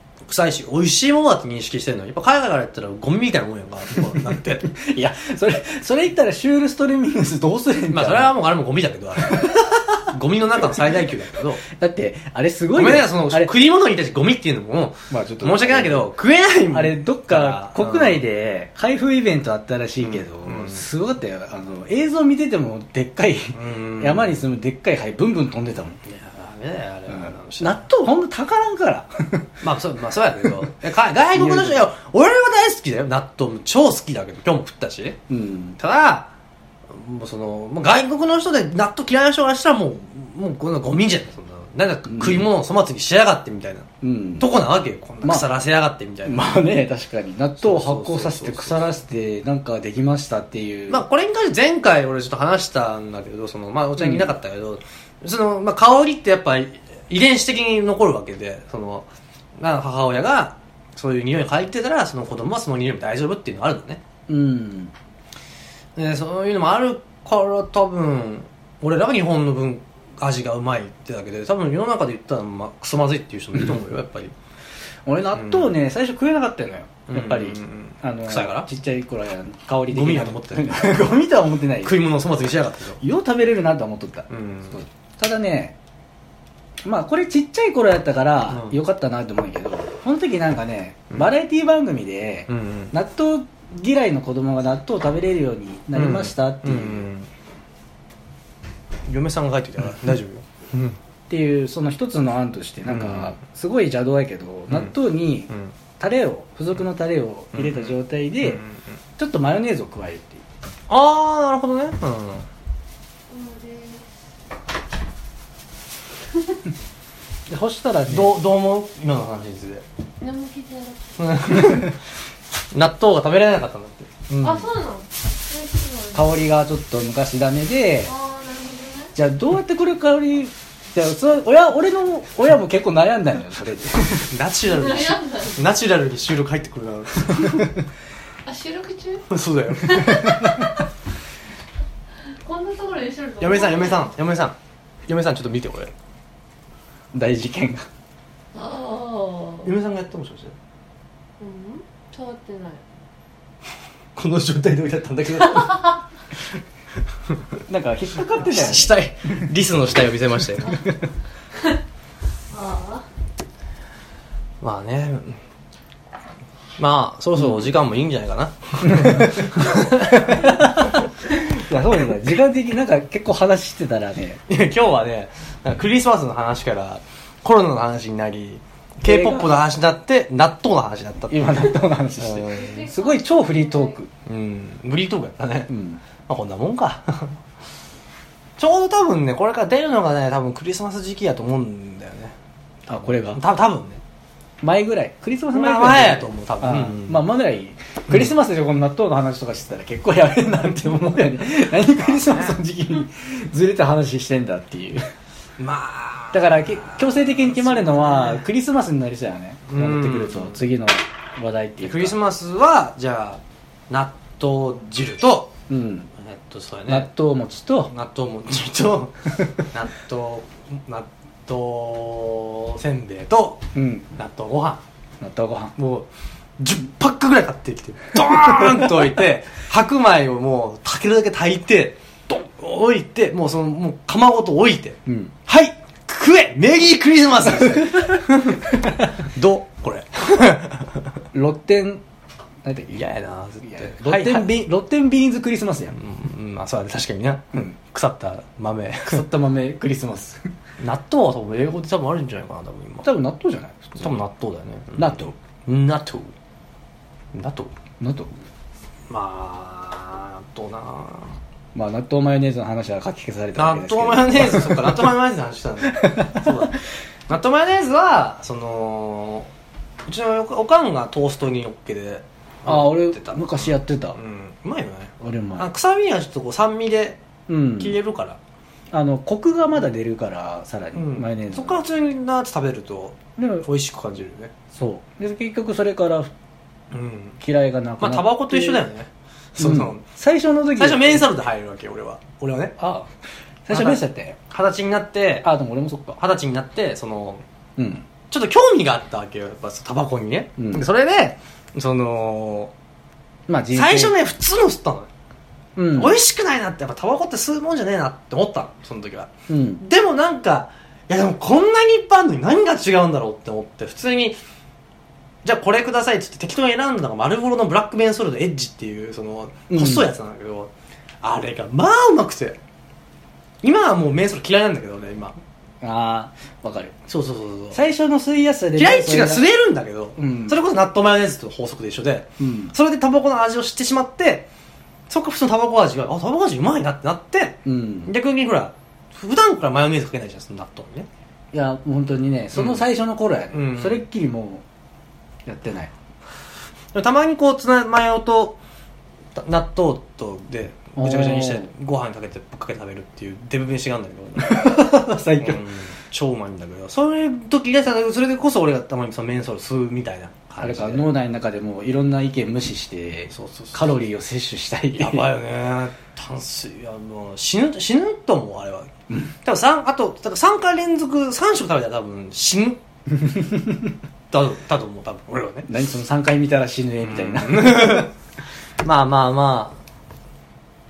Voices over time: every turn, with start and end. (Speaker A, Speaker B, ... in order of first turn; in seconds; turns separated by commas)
Speaker A: 0.2-4.7, Speaker B: 4.6-8.3, Speaker A: 7.9-11.6, Speaker B: 9.2-10.0, Speaker B: 11.6-13.5, Speaker A: 12.8-18.2, Speaker B: 15.1-16.1, Speaker B: 16.7-26.0, Speaker A: 20.0-20.8, Speaker A: 23.5-24.4, Speaker A: 26.0-27.8, Speaker B: 27.1-29.6, Speaker A: 29.6-35.2, Speaker B: 31.3-31.8, Speaker B: 35.3-35.8, Speaker A: 35.8-36.3, Speaker A: 36.9-43.9, Speaker B: 42.1-42.5, Speaker B: 44.0-44.5, Speaker A: 44.4-46.5, Speaker B: 45.2-45.5, Speaker B: 46.2-51.0, Speaker A: 47.6-48.8, Speaker A: 50.9-64.0, Speaker B: 54.0-54.3, Speaker B: 64.3-64.9, Speaker A: 66.0-74.3, Speaker B: 75.0-82.0, Speaker A: 75.3-75.7, Speaker A: 77.1-78.7, Speaker A: 79.9-81.1, Speaker A: 81.8-83.0, Speaker B: 83.0-85.7, Speaker A: 84.3-84.8, Speaker B: 86.8-97.1, Speaker A: 88.5-88.8, Speaker A: 92.5-92.9, Speaker A: 95.9-97.3, Speaker A: 99.1-101.0, Speaker B: 101.3-108.6, Speaker A: 102.8-103.3, Speaker A: 107.5-108.8, Speaker B: 109.2-110.4, Speaker A: 110.9-112.5, Speaker C: 113.3-114.1, Speaker B: 117.5-118.4, Speaker A: 118.1-119.8, Speaker C: 120.2-121.7, Speaker A: 121.2-122.0, Speaker A: 122.7-124.7, Speaker C: 124.4-126.5, Speaker B: 126.1-128.1, Speaker C: 128.0-129.1, Speaker B: 129.2-134.3, Speaker A: 134.2-137.7, Speaker C: 134.7-135.6, Speaker B: 137.3-137.7, Speaker C: 138.4-140.8, Speaker A: 139.3-140.4, Speaker C: 142.3-144.1, Speaker A: 143.4-144.6, Speaker A: 145.1-145.9, Speaker B: 147.1-147.9, Speaker C: 148.5-149.7, Speaker A: 149.6-150.5, Speaker C: 151.4-152.8, Speaker A: 154.2-156.0, Speaker C: 155.5-155.9, Speaker A: 157.3-157.6, Speaker B: 157.7-159.0, Speaker A: 158.3-160.9, Speaker C: 162.5-163.1, Speaker A: 164.6-165.4, Speaker A: 166.8-170.9, Speaker B: 168.8-169.5, Speaker B: 170.1-174.4, Speaker A: 174.5-182.8, Speaker B: 179.0-179.5, Speaker B: 181.3-184.1, Speaker C: 182.4-184.0, Speaker A: 184.2-185.7, Speaker B: 185.7-186.0, Speaker A: 186.3-187.4, Speaker A: 188.6-192.3, Speaker B: 192.9-193.4, Speaker A: 193.2-194.0, Speaker B: 194.6-205.0, Speaker A: 195.5-197.2, Speaker A: 201.9-202.6, Speaker A: 205.6-208.4, Speaker B: 206.3-212.2, Speaker A: 209.7-210.6, Speaker A: 211.8-215.5, Speaker B: 215.7-216.1, Speaker A: 216.2-217.1, Speaker B: 216.9-217.9, Speaker A: 217.9-224.8, Speaker B: 223.7-224.1, Speaker B: 225.2-225.7, Speaker A: 225.8-226.1, Speaker A: 226.6-241.1, Speaker B: 235.1-235.3, Speaker B: 237.5-238.9, Speaker B: 241.3-242.0, Speaker B: 242.6-243.0, Speaker A: 242.9-244.5, Speaker B: 243.6-246.0, Speaker A: 245.9-249.2, Speaker B: 249.1-250.4, Speaker A: 250.8-253.1, Speaker B: 253.0-254.2, Speaker A: 254.0-256.3, Speaker B: 255.0-255.3, Speaker A: 257.3-257.7, Speaker B: 258.0-258.3, Speaker A: 259.1-261.4, Speaker B: 261.7-265.1, Speaker A: 263.6-269.5, Speaker B: 265.9-266.6, Speaker A: 270.1-277.2, Speaker B: 272.6-274.2, Speaker B: 275.2-275.7, Speaker B: 277.5-277.9, Speaker A: 277.8-278.4, Speaker B: 278.9-281.8, Speaker A: 280.9-284.5, Speaker B: 283.4-283.7, Speaker B: 284.7-286.3, Speaker A: 286.9-287.4, Speaker B: 287.4-288.8, Speaker A: 288.0-290.0, Speaker B: 289.6-291.3, Speaker A: 290.8-292.8, Speaker B: 292.8-293.1, Speaker B: 293.7-294.4, Speaker A: 293.7-295.5, Speaker B: 295.4-296.2, Speaker A: 296.2-297.4, Speaker B: 297.8-298.1, Speaker A: 298.3-302.7, Speaker B: 300.6-300.9, Speaker B: 303.5-304.2, Speaker A: 303.7-305.1, Speaker B: 305.8-306.2, Speaker A: 305.9-314.4, Speaker B: 309.5-309.8, Speaker A: 315.4-320.7, Speaker B: 319.7-320.1, Speaker A: 321.2-322.6, Speaker A: 323.6-325.4, Speaker B: 325.8-326.9, Speaker A: 327.1-327.8, Speaker B: 327.7-329.4, Speaker A: 328.8-334.5, Speaker B: 330.2-330.6, Speaker B: 332.4-332.7, Speaker A: 335.1-341.1, Speaker B: 337.6-338.1, Speaker B: 341.5-344.6, Speaker A: 342.5-342.8, Speaker A: 343.5-344.0, Speaker B: 345.4-345.9, Speaker A: 346.9-348.6, Speaker A: 349.3-354.8, Speaker B: 350.9-351.7, Speaker B: 354.4-355.6, Speaker A: 355.4-361.1, Speaker B: 360.6-365.3, Speaker A: 363.3-363.9, Speaker A: 365.0-368.9, Speaker A: 369.4-372.8, Speaker B: 373.3-373.8, Speaker A: 374.3-375.7, Speaker B: 375.7-378.1, Speaker A: 377.0-378.1, Speaker A: 378.8-379.8